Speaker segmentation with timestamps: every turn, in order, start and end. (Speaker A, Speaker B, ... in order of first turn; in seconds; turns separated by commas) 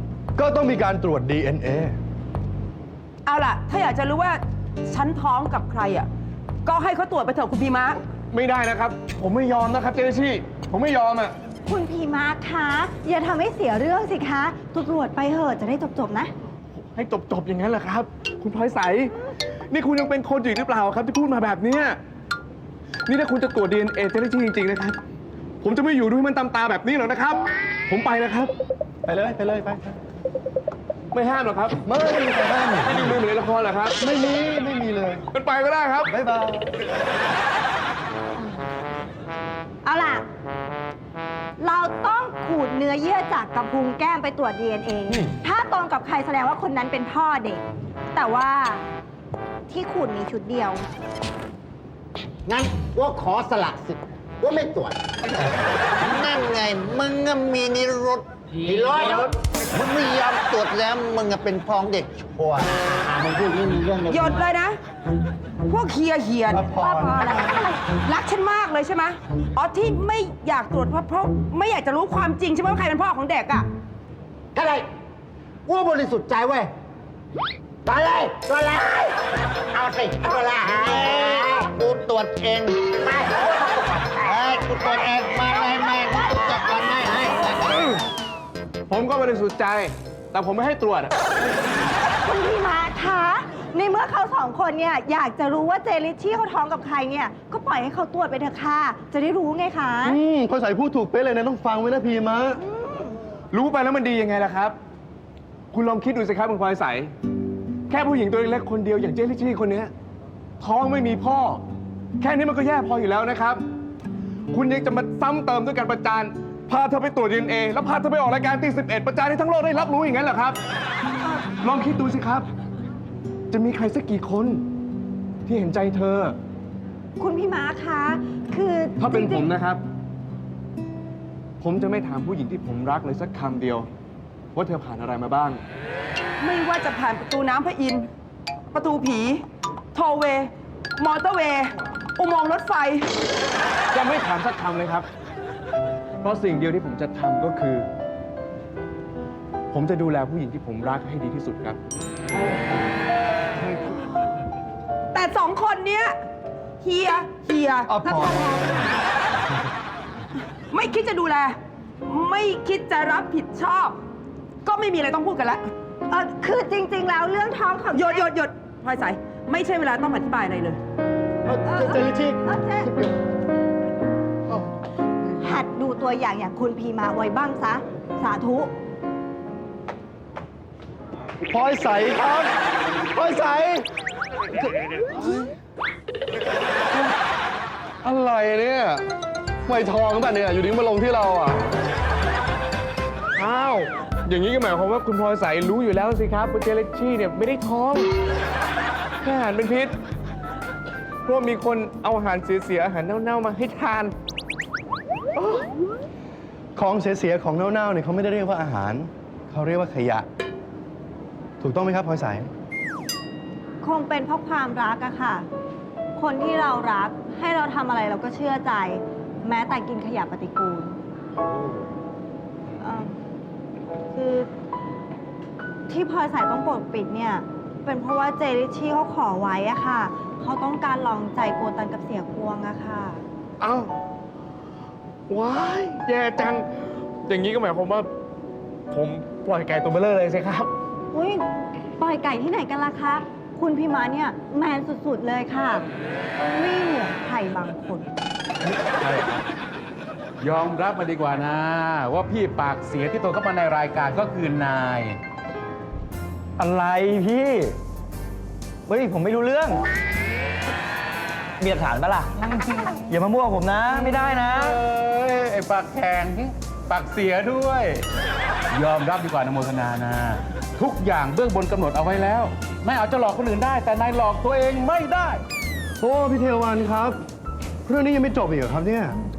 Speaker A: 0.4-2.0, Speaker B: 3.3-6.1, Speaker B: 6.7-8.0, Speaker C: 8.3-11.3, Speaker D: 11.7-16.3, Speaker C: 16.9-19.1, Speaker C: 19.7-22.0, Speaker C: 23.1-25.0, Speaker C: 25.6-28.5, Speaker A: 29.1-30.0, Speaker C: 31.1-31.8, Speaker A: 31.8-33.2, Speaker C: 32.9-34.0, Speaker A: 34.0-35.3, Speaker C: 35.3-36.1, Speaker A: 36.0-36.6, Speaker D: 39.9-40.2, Speaker D: 41.6-47.6, Speaker D: 48.1-48.8, Speaker D: 49.7-50.9, Speaker E: 52.5-64.4, Speaker B: 64.1-64.7, Speaker B: 65.7-66.6, Speaker A: 66.5-67.0, Speaker D: 66.6-67.9, Speaker E: 66.8-67.2, Speaker B: 68.1-73.7, Speaker E: 74.5-74.9, Speaker E: 75.7-76.7, Speaker E: 77.8-79.2, Speaker E: 79.7-88.0, Speaker C: 88.9-91.1, Speaker D: 92.2-100.2, Speaker A: 100.0-102.6, Speaker D: 102.7-103.1, Speaker C: 103.5-104.8, Speaker C: 105.7-107.1, Speaker C: 107.9-109.9, Speaker C: 110.6-111.6, Speaker C: 112.2-113.6, Speaker C: 114.5-120.6, Speaker C: 121.6-122.5, Speaker C: 123.5-124.6, Speaker C: 125.5-126.3, Speaker D: 127.2-129.4, Speaker C: 129.0-129.8, Speaker C: 131.6-133.9, Speaker C: 134.6-135.6, Speaker B: 136.4-138.1, Speaker B: 138.7-139.4, Speaker B: 139.9-143.1, Speaker C: 143.9-145.1, Speaker C: 146.2-147.9, Speaker C: 149.7-151.8, Speaker B: 155.1-156.1, Speaker B: 156.8-157.9, Speaker A: 157.9-158.7, Speaker B: 160.7-164.0, Speaker B: 164.7-165.6, Speaker D: 166.1-168.3, Speaker B: 167.9-170.8, Speaker A: 171.4-172.4, Speaker D: 171.7-173.0, Speaker D: 175.4-178.7, Speaker A: 181.5-182.5, Speaker A: 183.1-183.8, Speaker A: 185.2-185.4, Speaker A: 188.0-189.1, Speaker A: 189.7-191.6, Speaker C: 193.4-198.1, Speaker C: 199.2-199.9, Speaker C: 201.3-204.1, Speaker A: 206.8-210.3, Speaker A: 211.6-212.5, Speaker D: 213.8-215.5, Speaker D: 216.2-221.0, Speaker D: 222.8-223.1, Speaker D: 224.1-224.5, Speaker D: 225.9-233.2, Speaker C: 233.6-233.9, Speaker C: 235.3-238.1, Speaker C: 238.9-240.7, Speaker D: 241.1-245.8, Speaker D: 246.5-248.2, Speaker F: 248.8-249.4, Speaker F: 250.4-255.2, Speaker G: 256.6-257.8, Speaker G: 258.9-259.8, Speaker G: 261.6-264.8, Speaker F: 263.9-268.0, Speaker F: 268.7-275.4, Speaker A: 276.0-277.2, Speaker A: 277.9-279.2